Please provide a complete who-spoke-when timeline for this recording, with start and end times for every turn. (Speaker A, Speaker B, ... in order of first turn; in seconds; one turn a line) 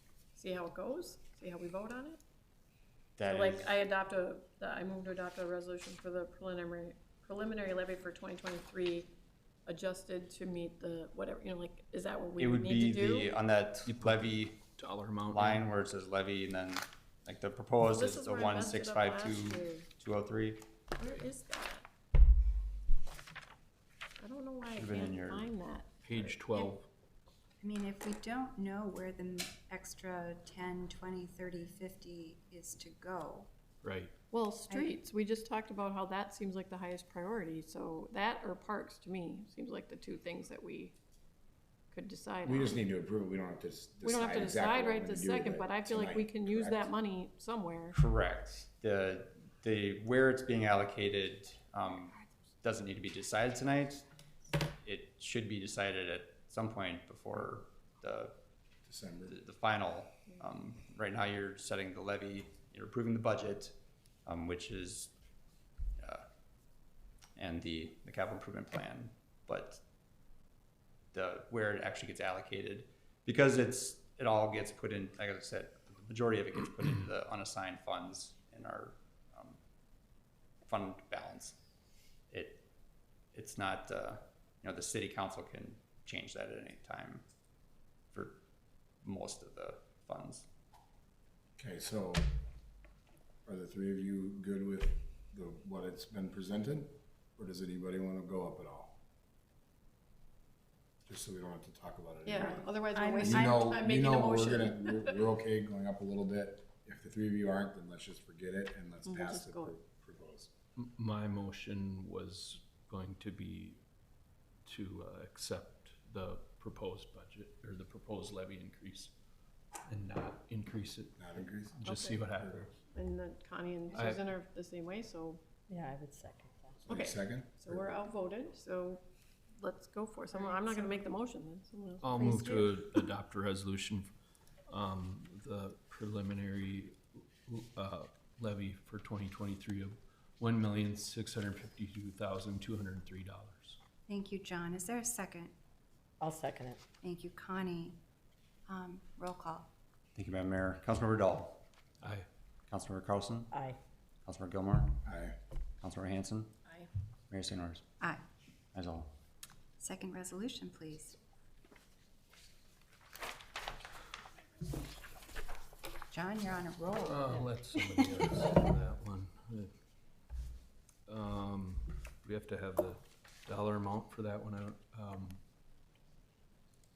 Speaker A: 0.3-2.2
Speaker B: 3.2-3.8
Speaker A: 3.3-9.1
Speaker A: 9.7-13.4
Speaker B: 12.4-14.7
Speaker C: 13.8-15.6
Speaker B: 15.3-20.7
Speaker A: 17.9-19.9
Speaker A: 21.0-21.9
Speaker A: 24.2-26.7
Speaker B: 24.7-25.5
Speaker C: 26.1-26.9
Speaker D: 27.6-33.5
Speaker C: 33.8-34.1
Speaker A: 34.3-41.0
Speaker A: 41.9-42.8
Speaker E: 42.4-46.9
Speaker A: 44.0-48.0
Speaker B: 47.9-54.0
Speaker B: 54.8-58.4
Speaker E: 58.9-59.4
Speaker B: 59.3-65.1
Speaker B: 66.0-66.2
Speaker B: 67.4-69.8
Speaker B: 71.1-79.6
Speaker B: 80.7-81.6
Speaker B: 82.3-82.7
Speaker B: 83.3-87.2
Speaker B: 88.1-88.4
Speaker B: 89.0-90.5
Speaker E: 91.6-92.3
Speaker E: 93.5-99.0
Speaker E: 101.1-110.5
Speaker A: 102.2-105.2
Speaker F: 102.9-103.6
Speaker A: 109.0-109.8
Speaker C: 110.8-113.8
Speaker C: 114.7-119.1
Speaker C: 119.9-122.8
Speaker E: 121.2-121.8
Speaker A: 121.8-122.3
Speaker A: 122.9-125.4
Speaker C: 123.9-124.2
Speaker F: 125.7-126.8
Speaker E: 126.8-127.9
Speaker A: 126.9-129.1
Speaker A: 129.6-132.4
Speaker C: 132.0-134.1
Speaker D: 132.3-132.7
Speaker C: 134.7-143.8
Speaker D: 144.1-145.5
Speaker F: 146.2-146.8
Speaker D: 147.0-148.0
Speaker D: 148.7-149.7
Speaker B: 150.2-151.6
Speaker C: 152.0-152.3
Speaker B: 152.7-153.5
Speaker F: 153.5-153.8
Speaker B: 154.3-155.0
Speaker E: 155.1-155.4
Speaker B: 155.8-156.6
Speaker B: 157.3-157.8
Speaker B: 158.8-159.1
Speaker D: 159.8-161.2
Speaker D: 166.1-167.2
Speaker C: 167.0-169.7
Speaker F: 167.0-167.5
Speaker C: 171.1-175.4